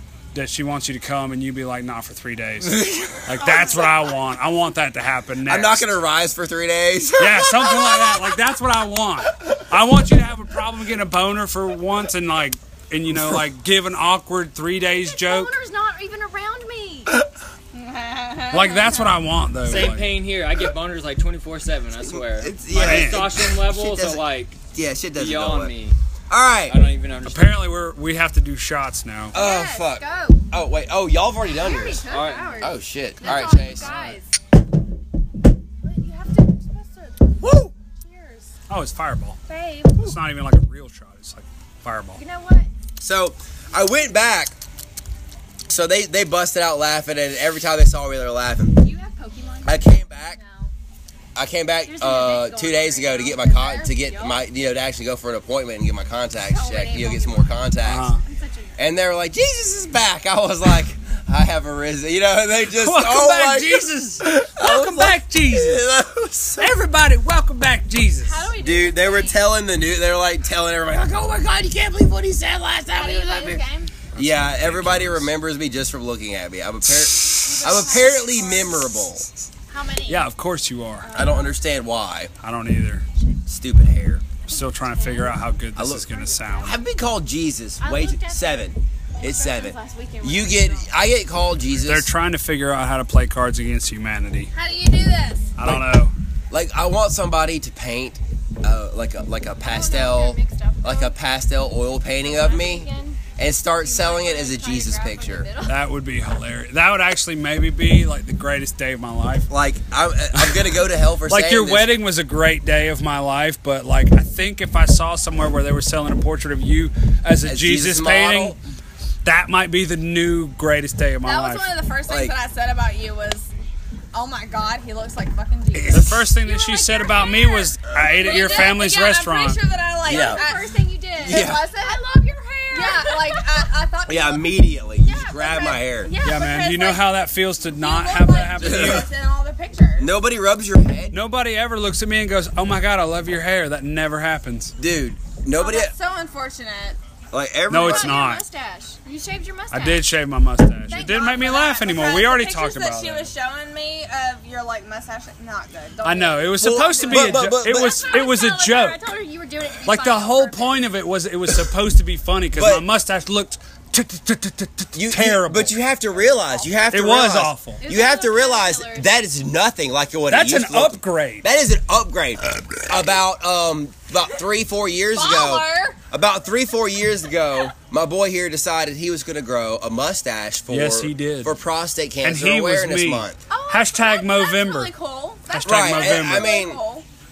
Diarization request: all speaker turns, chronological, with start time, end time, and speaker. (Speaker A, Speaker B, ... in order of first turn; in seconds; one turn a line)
Speaker A: 0.3-5.9
Speaker B: 2.6-3.9
Speaker B: 5.5-8.3
Speaker A: 7.2-15.6
Speaker C: 15.1-17.1
Speaker D: 17.7-19.0
Speaker A: 18.5-20.1
Speaker E: 19.6-24.6
Speaker B: 22.0-25.7
Speaker A: 22.7-23.4
Speaker E: 25.1-25.9
Speaker B: 26.3-26.8
Speaker E: 26.7-27.6
Speaker A: 27.2-29.4
Speaker C: 29.3-30.4
Speaker B: 29.3-32.1
Speaker C: 31.5-34.3
Speaker E: 32.1-32.8
Speaker B: 32.6-33.9
Speaker A: 33.2-34.2
Speaker D: 35.8-37.2
Speaker C: 35.9-37.2
Speaker B: 37.4-37.7
Speaker D: 38.0-38.4
Speaker C: 38.1-38.5
Speaker A: 38.7-39.4
Speaker C: 39.5-40.1
Speaker A: 39.9-42.2
Speaker C: 42.1-42.7
Speaker B: 43.0-44.5
Speaker B: 45.7-48.9
Speaker C: 48.8-50.7
Speaker B: 49.6-50.4
Speaker B: 51.4-58.1
Speaker C: 51.9-54.4
Speaker C: 56.4-57.6
Speaker A: 57.8-58.2
Speaker C: 58.2-58.8
Speaker B: 58.8-66.8
Speaker A: 62.7-65.8
Speaker A: 66.6-68.5
Speaker C: 68.2-69.4
Speaker B: 68.6-73.6
Speaker C: 72.9-73.9
Speaker A: 74.1-75.3
Speaker B: 74.2-79.3
Speaker C: 77.4-78.9
Speaker D: 77.6-78.7
Speaker C: 79.7-80.3
Speaker A: 80.0-81.1
Speaker C: 81.0-81.6
Speaker B: 81.1-82.3
Speaker A: 82.4-83.0
Speaker B: 83.5-84.2
Speaker C: 84.5-85.4
Speaker A: 84.5-86.8
Speaker B: 85.8-86.0
Speaker C: 86.0-86.8
Speaker B: 86.6-92.1
Speaker C: 87.8-90.9
Speaker A: 91.8-94.5
Speaker D: 94.5-95.5
Speaker A: 95.6-96.1
Speaker B: 95.6-95.9
Speaker B: 96.5-105.5
Speaker C: 99.7-101.1
Speaker C: 102.2-103.2
Speaker C: 103.8-105.8
Speaker A: 105.6-109.5
Speaker B: 109.5-111.9
Speaker A: 111.2-118.6
Speaker B: 117.4-118.6
Speaker A: 119.2-121.7
Speaker D: 121.2-123.5
Speaker B: 122.1-122.3
Speaker D: 124.1-126.3
Speaker A: 125.8-129.6
Speaker C: 126.4-128.9
Speaker D: 128.2-134.5
Speaker C: 130.1-133.5
Speaker B: 130.1-130.4
Speaker B: 131.2-131.7
Speaker B: 134.1-136.1
Speaker C: 135.0-136.7
Speaker D: 135.5-137.1
Speaker A: 136.2-139.1
Speaker D: 137.6-140.1
Speaker B: 138.6-139.1
Speaker B: 140.0-141.2
Speaker A: 141.1-144.8
Speaker B: 144.8-145.9
Speaker D: 145.5-147.0
Speaker B: 147.3-148.2
Speaker A: 147.7-148.4
Speaker C: 147.7-150.1
Speaker A: 149.7-153.3
Speaker C: 150.9-151.9
Speaker D: 150.9-157.6
Speaker A: 156.0-159.0
Speaker B: 156.6-158.1
Speaker C: 157.6-160.8
Speaker A: 159.8-165.7
Speaker B: 162.5-162.8
Speaker B: 164.9-183.4
Speaker D: 166.1-166.7
Speaker A: 166.9-167.8
Speaker C: 167.8-169.1
Speaker A: 170.3-171.5
Speaker D: 175.1-176.0
Speaker A: 180.7-181.5
Speaker A: 182.2-184.9
Speaker D: 183.5-187.1
Speaker A: 185.5-186.5
Speaker B: 185.6-186.8